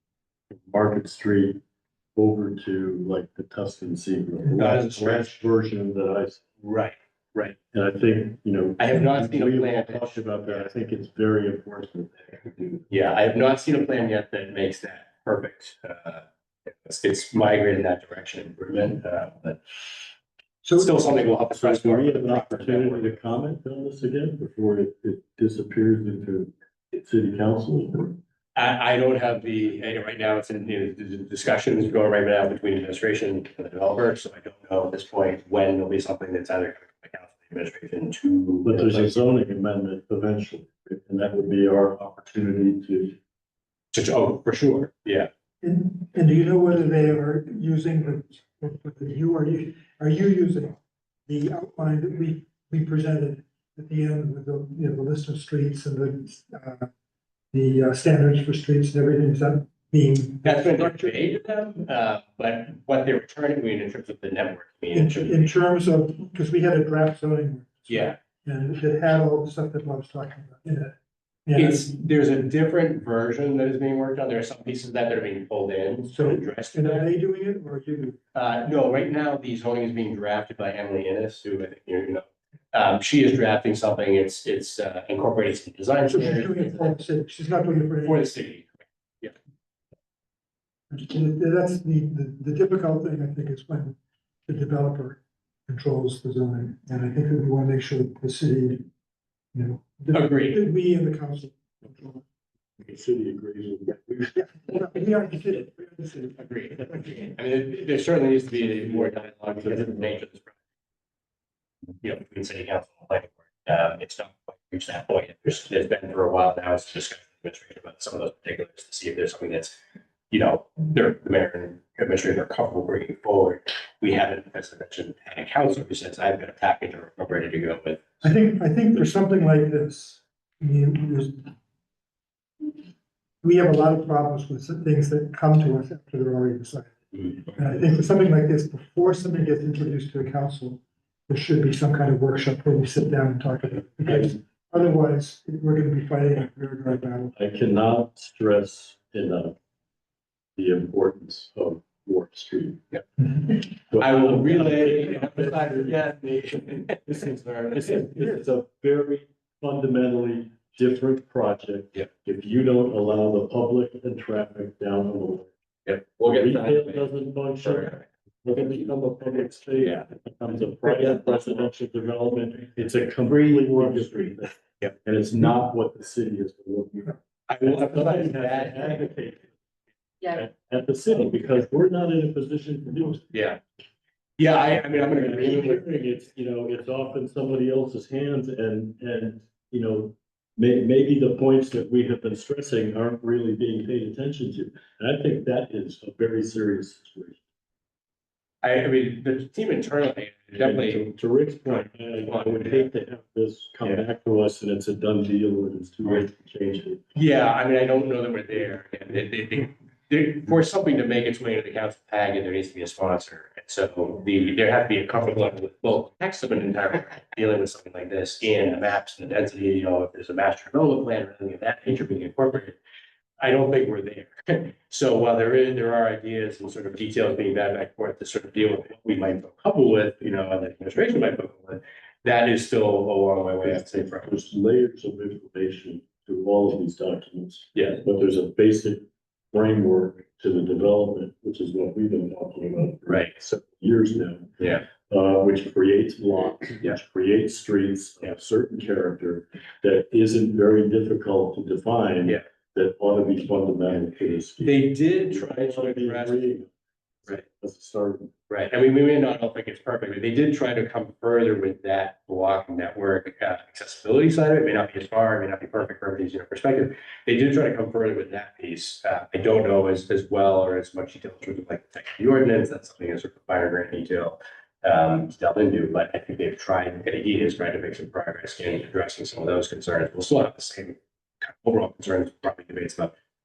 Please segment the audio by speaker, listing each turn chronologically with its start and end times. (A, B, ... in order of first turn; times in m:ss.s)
0:00.5-0:01.6 A
0:02.2-0:06.5 A
0:04.6-0:05.4 B
0:06.6-0:07.6 B
0:07.7-0:12.9 A
0:08.8-0:10.7 B
0:12.9-0:19.6 B
0:20.6-0:21.1 C
0:20.8-0:23.1 B
0:21.5-0:28.2 A
0:28.6-0:39.2 B
0:38.6-0:43.2 A
0:43.9-0:45.3 B
0:45.6-0:56.9 C
0:57.5-1:01.2 C
1:00.4-1:05.5 B
1:04.9-1:11.0 C
1:07.9-1:08.2 B
1:11.5-1:11.8 C
1:11.6-1:17.1 B
1:16.1-1:18.2 C
1:18.4-1:27.0 B
1:26.1-1:28.3 C
1:28.0-1:29.4 B
1:30.9-1:38.9 C
1:39.5-1:42.2 C
1:40.1-1:40.6 B
1:42.8-1:44.4 A
1:44.3-1:47.2 C
1:46.4-1:50.5 B
1:49.0-1:50.2 A
1:52.0-1:59.8 B
2:00.3-2:08.1 B
2:08.2-2:11.5 C
2:13.4-2:27.3 C
2:27.4-2:29.6 A
2:30.6-2:32.8 A
2:32.9-2:38.2 B
2:33.9-2:36.0 A
2:37.1-2:45.5 A
2:45.9-2:47.1 B
2:46.2-2:59.5 A
2:47.6-2:48.0 B
2:49.8-2:50.1 B
2:53.5-2:54.1 B
2:57.5-2:59.0 B
3:00.2-3:03.3 A
3:03.3-3:03.6 B
3:04.4-3:05.8 B
3:04.9-3:17.4 A
3:18.6-3:21.1 B
3:20.5-3:27.0 A
3:21.7-3:22.9 B
3:27.2-3:42.8 B
3:43.4-3:54.4 B
3:53.6-4:16.7 A
3:57.8-3:58.0 B
4:04.6-4:04.8 B
4:14.6-4:16.4 B
4:17.2-4:18.3 A
4:18.5-4:43.1 B